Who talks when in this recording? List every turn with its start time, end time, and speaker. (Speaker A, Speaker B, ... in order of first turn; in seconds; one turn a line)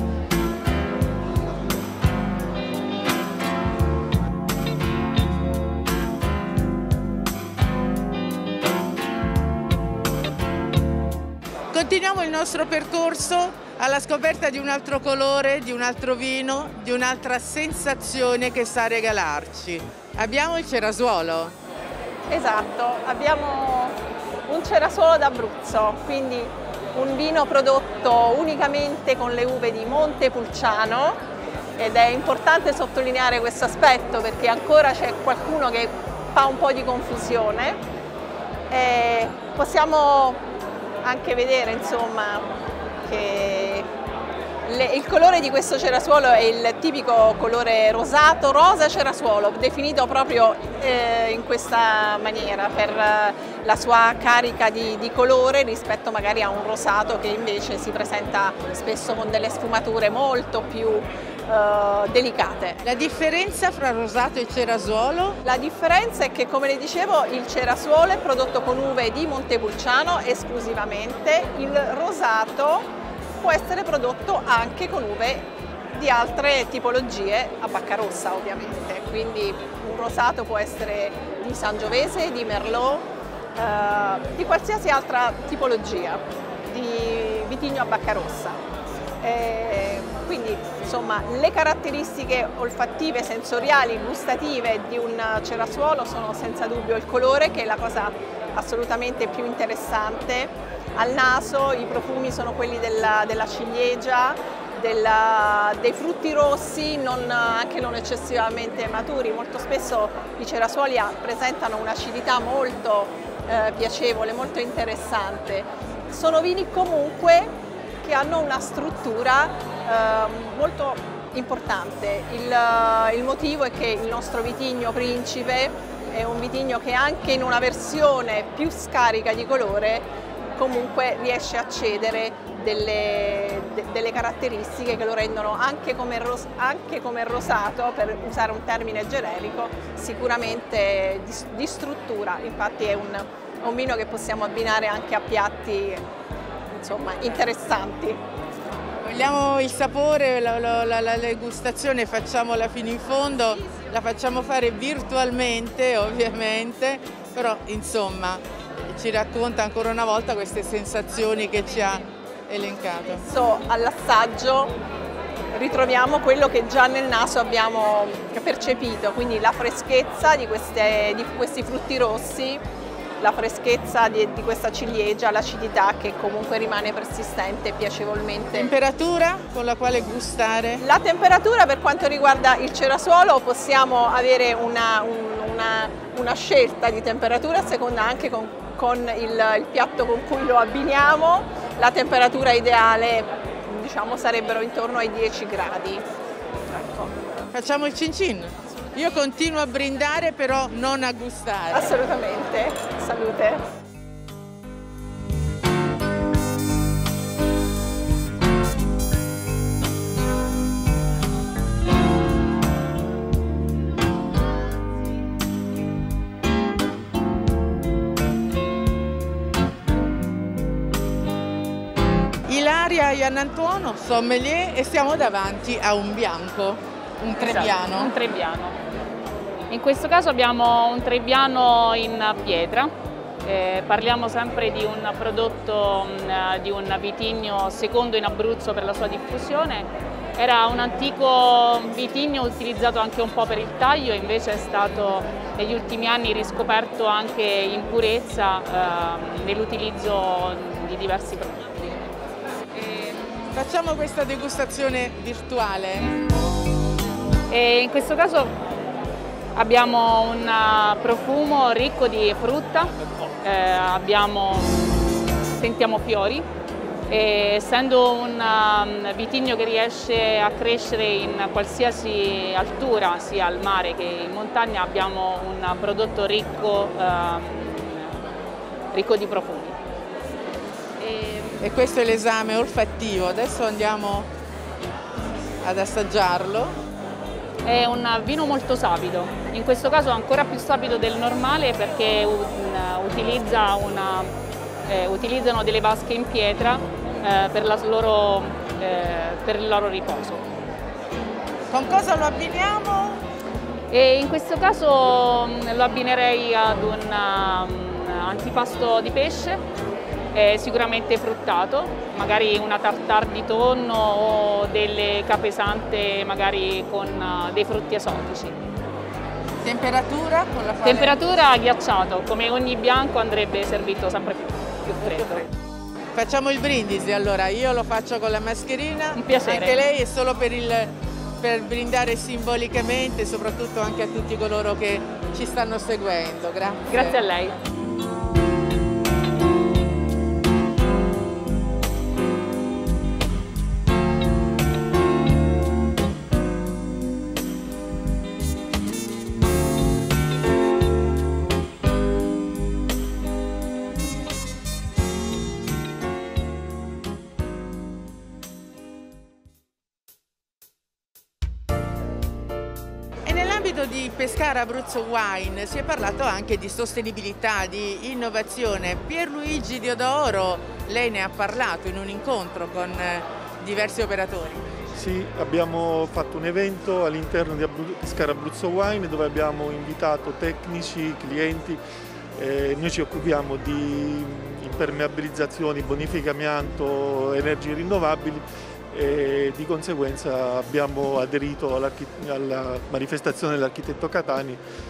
Speaker A: 11.7-21.6
Speaker B: 22.3-31.2
Speaker B: 31.8-37.8
Speaker B: 38.7-40.4
Speaker B: 41.0-42.5
Speaker B: 43.1-43.9
Speaker B: 44.7-62.8
Speaker A: 62.8-65.4
Speaker B: 65.4-72.9
Speaker B: 73.4-88.6
Speaker B: 89.2-117.5
Speaker B: 118.0-146.0
Speaker B: 146.7-148.2
Speaker A: 149.0-163.2
Speaker B: 163.3-164.8
Speaker B: 165.5-172.6
Speaker B: 173.2-178.7
Speaker A: 178.6-180.8
Speaker B: 180.8-196.1
Speaker B: 196.8-197.1
Speaker A: 197.5-202.0
Speaker B: 201.7-203.6
Speaker A: 222.5-228.1
Speaker C: 227.4-228.8
Speaker C: 229.7-232.9
Speaker C: 233.4-251.8
Speaker C: 252.8-253.2
Speaker A: 253.5-256.1
Speaker C: 257.5-258.6
Speaker C: 259.6-264.8
Speaker C: 265.6-266.5
Speaker C: 267.1-278.1
Speaker C: 278.9-279.8
Speaker C: 281.0-281.6
Speaker A: 281.6-284.3
Speaker A: 285.6-286.8
Speaker C: 287.6-294.3
Speaker C: 294.9-300.5
Speaker A: 301.7-303.2
Speaker C: 303.9-309.6
Speaker C: 310.3-318.6
Speaker A: 319.6-321.2
Speaker C: 320.8-325.5
Speaker A: 326.1-337.2
Speaker C: 329.2-329.8
Speaker C: 336.9-337.6
Speaker A: 363.3-374.6
Speaker D: 374.9-381.8
Speaker D: 382.4-394.6